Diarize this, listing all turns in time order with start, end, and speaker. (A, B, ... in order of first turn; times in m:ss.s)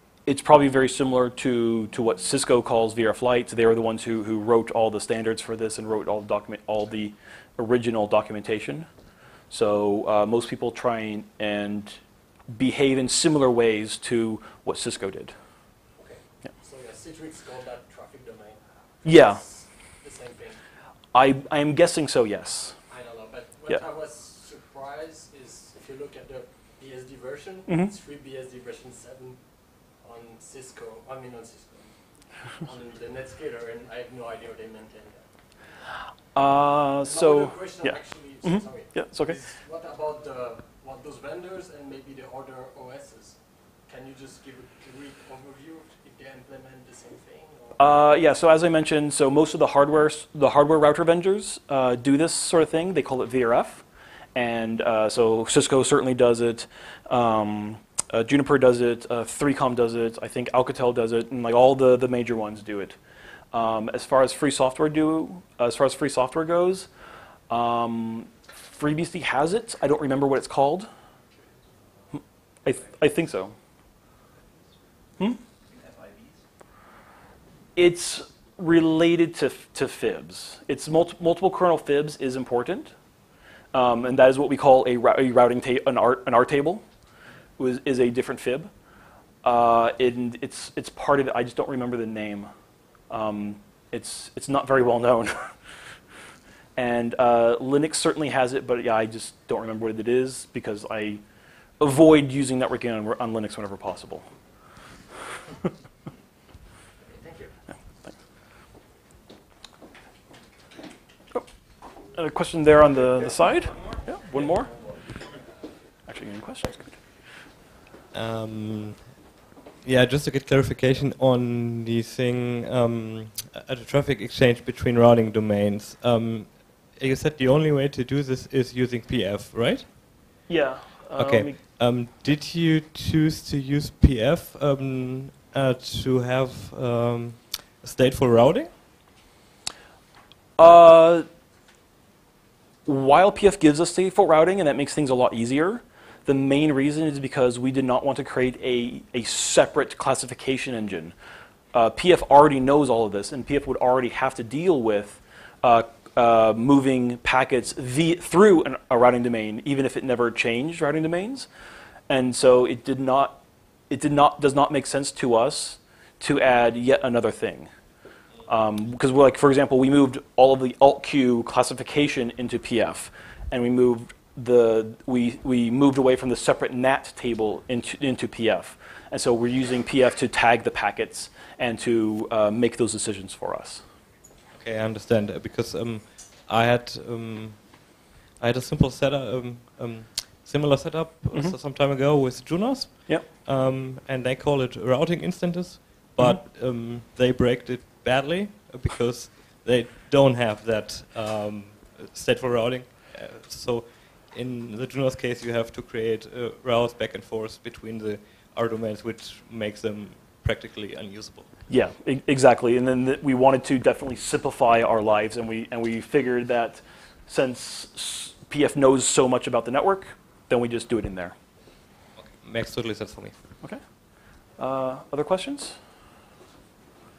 0:00.3-0:08.9 A
0:09.5-0:12.0 A
0:12.5-0:15.3 A
0:16.0-0:20.6 B
0:19.0-0:19.4 A
0:21.1-0:22.8 A
0:22.9-0:35.3 B
0:27.7-0:27.9 A
0:36.4-0:39.4 A
0:37.0-0:47.8 B
0:47.8-1:03.0 A
1:03.5-1:06.9 A
1:07.5-1:10.9 A
1:12.1-1:13.6 A
1:17.8-1:22.9 A
1:23.7-1:26.8 A
1:27.6-1:28.7 A
1:29.4-1:32.5 A
1:33.1-1:35.5 A
1:36.8-1:41.2 A
1:41.8-1:44.3 A
1:47.0-1:47.6 B
1:52.1-1:54.8 A
1:56.1-1:57.0 A
1:58.1-2:09.9 C
2:10.5-2:11.6 A
2:11.2-2:18.8 C
2:20.6-2:21.3 A
2:22.8-2:31.2 A
2:31.7-2:41.5 A
2:42.1-2:47.7 A
2:48.5-3:03.8 A
3:04.6-3:31.5 C
3:31.7-3:41.4 A
3:42.2-3:43.4 C
3:44.6-3:45.8 A